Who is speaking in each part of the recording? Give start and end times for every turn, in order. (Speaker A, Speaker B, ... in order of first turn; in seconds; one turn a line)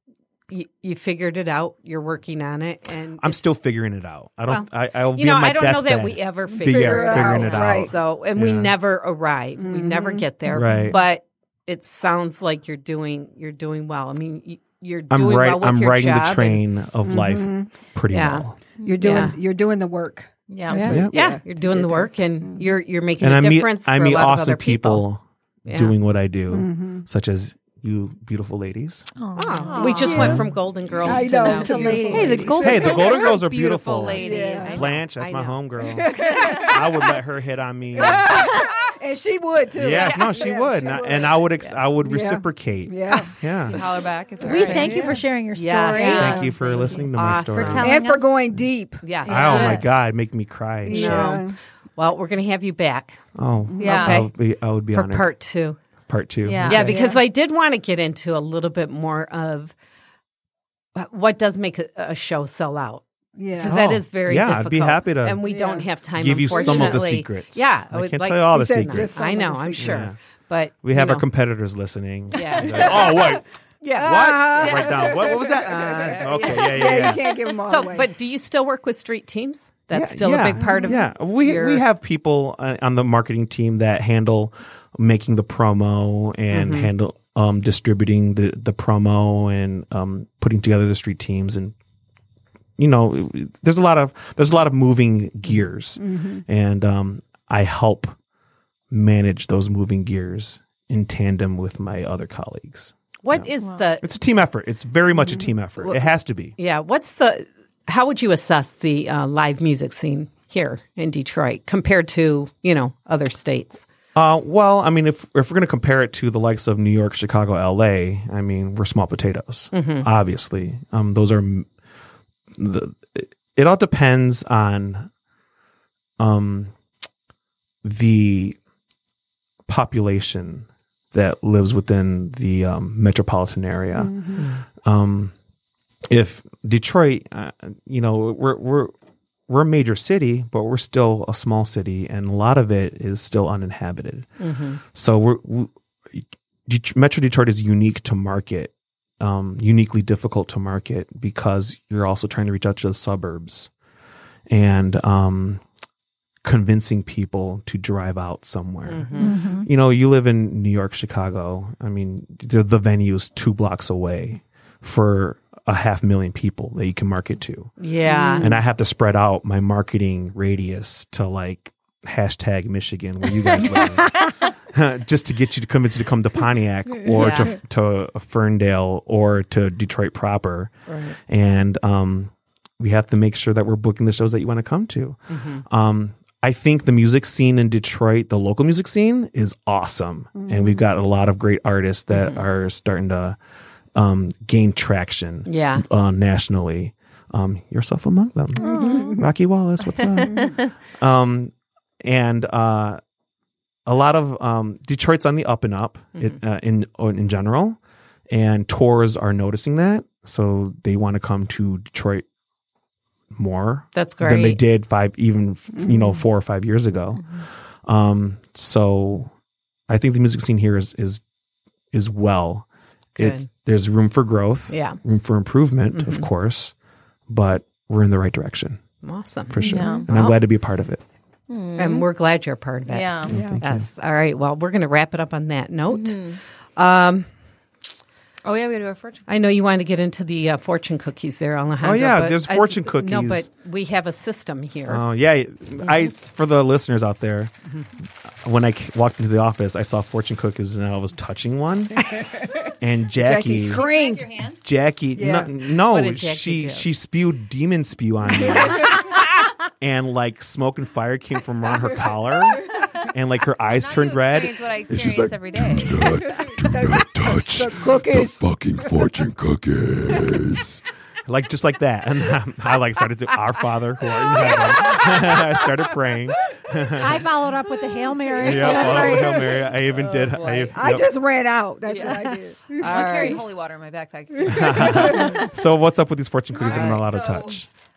Speaker A: 0.5-3.4
Speaker B: 3.2-8.7
Speaker A: 4.5-16.6
Speaker C: 6.6-7.9
Speaker C: 9.6-10.3
Speaker B: 10.5-11.0
Speaker B: 15.1-18.5
Speaker C: 17.0-17.7
Speaker A: 18.1-19.4
Speaker D: 18.8-19.3
Speaker C: 18.8-22.7
Speaker D: 20.5-20.8
Speaker E: 20.7-21.0
Speaker B: 20.9-21.1
Speaker A: 21.1-25.0
Speaker B: 23.2-29.1
Speaker A: 25.7-25.9
Speaker C: 26.5-27.0
Speaker D: 29.2-30.3
Speaker A: 29.3-32.8
Speaker E: 29.6-30.4
Speaker C: 30.0-33.4
Speaker B: 30.1-30.5
Speaker E: 31.0-32.5
Speaker D: 32.0-35.0
Speaker B: 32.6-38.5
Speaker C: 34.1-34.8
Speaker A: 34.7-35.6
Speaker C: 35.8-37.1
Speaker D: 36.2-36.8
Speaker C: 37.9-43.3
Speaker D: 38.3-38.6
Speaker B: 39.7-43.8
Speaker D: 40.0-40.4
Speaker D: 43.6-45.1
Speaker E: 44.4-46.5
Speaker C: 44.4-46.5
Speaker A: 45.5-47.9
Speaker B: 46.0-48.0
Speaker E: 47.4-48.4
Speaker C: 47.8-49.8
Speaker A: 49.0-49.8
Speaker B: 49.2-51.4
Speaker E: 49.3-49.8
Speaker C: 50.8-51.5
Speaker A: 50.9-53.2
Speaker B: 53.3-55.3
Speaker C: 53.7-54.0
Speaker D: 53.8-54.2
Speaker A: 53.8-54.3
Speaker A: 54.9-55.8
Speaker B: 56.1-57.0
Speaker D: 56.4-57.0
Speaker A: 56.6-59.7
Speaker C: 56.7-57.2
Speaker A: 60.9-63.0
Speaker C: 63.4-63.9
Speaker A: 63.6-71.2
Speaker B: 63.6-65.5
Speaker C: 65.4-65.9
Speaker B: 66.1-70.2
Speaker C: 66.5-67.0
Speaker C: 68.5-70.1
Speaker B: 70.8-77.3
Speaker A: 72.3-73.2
Speaker C: 72.5-73.3
Speaker A: 73.8-75.1
Speaker C: 74.0-78.1
Speaker D: 74.6-75.0
Speaker A: 76.2-76.8
Speaker D: 76.3-77.4
Speaker A: 77.6-81.8
Speaker B: 79.9-91.7
Speaker C: 80.6-81.0
Speaker A: 86.5-86.9
Speaker B: 92.8-98.1
Speaker C: 96.0-96.4
Speaker B: 98.9-103.5
Speaker A: 103.2-104.0
Speaker B: 104.0-106.5
Speaker A: 105.8-106.0
Speaker A: 106.6-113.8
Speaker B: 114.1-121.7
Speaker A: 119.7-120.1
Speaker B: 122.5-125.1
Speaker B: 126.2-126.7
Speaker B: 127.8-128.6
Speaker B: 129.7-135.3
Speaker C: 133.9-134.4
Speaker B: 136.1-138.9
Speaker B: 139.5-144.3
Speaker A: 144.4-144.8
Speaker B: 144.9-153.7
Speaker B: 154.5-155.6
Speaker B: 156.4-167.8
Speaker A: 158.8-159.3
Speaker E: 159.2-159.7
Speaker A: 167.8-168.5
Speaker C: 168.0-168.6
Speaker B: 168.4-193.4
Speaker A: 177.1-177.6
Speaker A: 180.9-181.2
Speaker A: 185.3-185.6
Speaker C: 190.4-190.8
Speaker A: 192.1-192.4
Speaker B: 193.9-203.0
Speaker A: 195.4-195.8
Speaker C: 198.6-199.2
Speaker E: 198.6-199.2
Speaker B: 203.8-212.2
Speaker B: 213.3-219.3
Speaker A: 213.9-214.6
Speaker D: 217.2-217.4
Speaker B: 219.9-221.2
Speaker B: 221.9-222.7
Speaker A: 223.2-223.5
Speaker B: 223.2-226.7
Speaker A: 224.7-225.0
Speaker A: 225.9-226.3
Speaker B: 227.3-228.8
Speaker A: 229.0-230.4
Speaker B: 229.5-231.0
Speaker D: 229.6-230.3
Speaker D: 231.5-232.1
Speaker A: 231.8-237.3
Speaker D: 232.8-233.3
Speaker B: 233.2-233.9
Speaker C: 233.2-233.6
Speaker D: 235.9-236.4
Speaker D: 238.4-239.2
Speaker A: 239.3-245.0
Speaker B: 241.8-243.5
Speaker B: 244.9-247.5
Speaker B: 248.4-252.2
Speaker C: 252.1-254.5
Speaker B: 252.8-253.9
Speaker D: 253.7-254.5
Speaker B: 254.6-259.1
Speaker C: 255.2-255.5
Speaker A: 255.8-256.9
Speaker C: 258.4-259.1
Speaker B: 259.8-264.7
Speaker D: 263.7-266.1
Speaker F: 264.9-270.8
Speaker C: 266.3-268.4
Speaker B: 267.3-267.9
Speaker B: 270.6-277.2
Speaker E: 276.9-279.5
Speaker C: 278.1-279.7
Speaker B: 278.4-281.1
Speaker A: 279.9-280.8
Speaker C: 280.7-283.4
Speaker A: 281.9-282.2
Speaker E: 282.0-282.3
Speaker A: 282.8-283.4
Speaker D: 282.8-285.5
Speaker C: 284.4-285.4
Speaker B: 284.4-287.7
Speaker D: 286.5-287.6
Speaker A: 286.7-287.0